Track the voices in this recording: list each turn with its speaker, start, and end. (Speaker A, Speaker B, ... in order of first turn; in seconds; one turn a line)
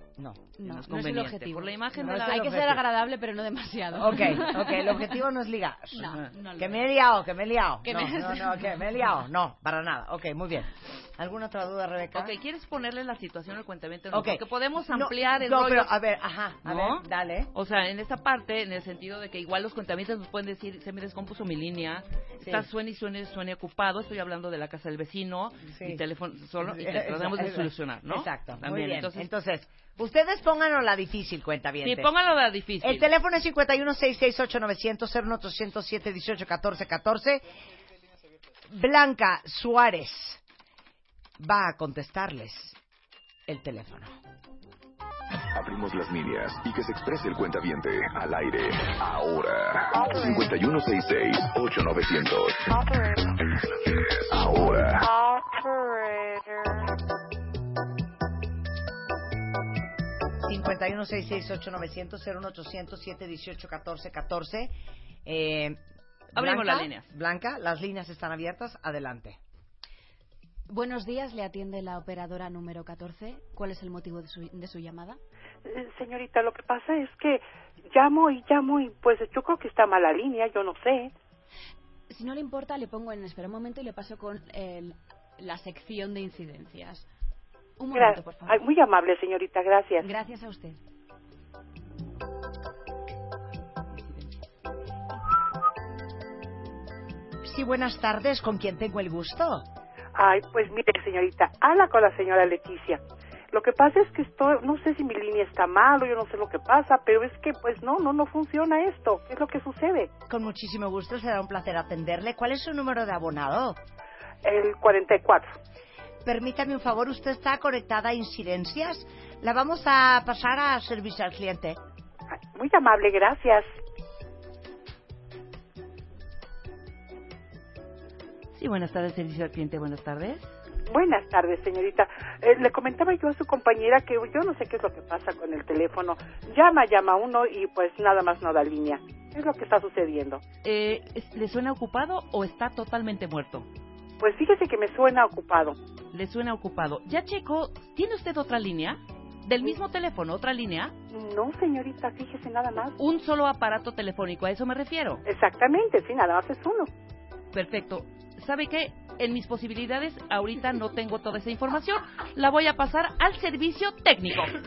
Speaker A: 0.2-0.4
Speaker B: 0.6-5.2
Speaker C: 0.6-2.8
Speaker A: 1.9-2.8
Speaker A: 3.9-12.3
Speaker B: 5.9-6.9
Speaker B: 7.8-8.8
Speaker C: 12.1-15.9
Speaker A: 14.1-17.5
Speaker C: 16.6-29.3
Speaker A: 22.4-22.7
Speaker A: 25.7-26.0
Speaker A: 26.6-32.1
Speaker C: 31.8-33.1
Speaker A: 32.8-37.4
Speaker A: 38.7-40.4
Speaker A: 41.4-42.8
Speaker A: 43.5-44.1
Speaker D: 45.5-52.6
Speaker D: 53.9-55.0
Speaker A: 60.4-64.7
Speaker A: 65.2-65.8
Speaker C: 66.3-67.1
Speaker A: 66.3-69.4
Speaker B: 70.7-75.2
Speaker E: 75.6-81.1
Speaker B: 82.1-87.0
Speaker B: 87.8-88.6
Speaker E: 87.9-90.1
Speaker B: 90.0-90.8
Speaker A: 97.4-99.6
Speaker E: 100.1-103.0
Speaker E: 103.5-110.1
Speaker A: 110.3-113.8
Speaker E: 114.4-115.5
Speaker A: 116.2-121.8
Speaker E: 122.5-123.7
Speaker C: 128.5-130.5
Speaker E: 130.9-140.4
Speaker C: 140.6-143.7
Speaker E: 144.2-145.8
Speaker C: 146.1-150.9
Speaker E: 151.1-152.9
Speaker C: 153.0-155.2
Speaker E: 155.2-156.9
Speaker C: 157.5-164.5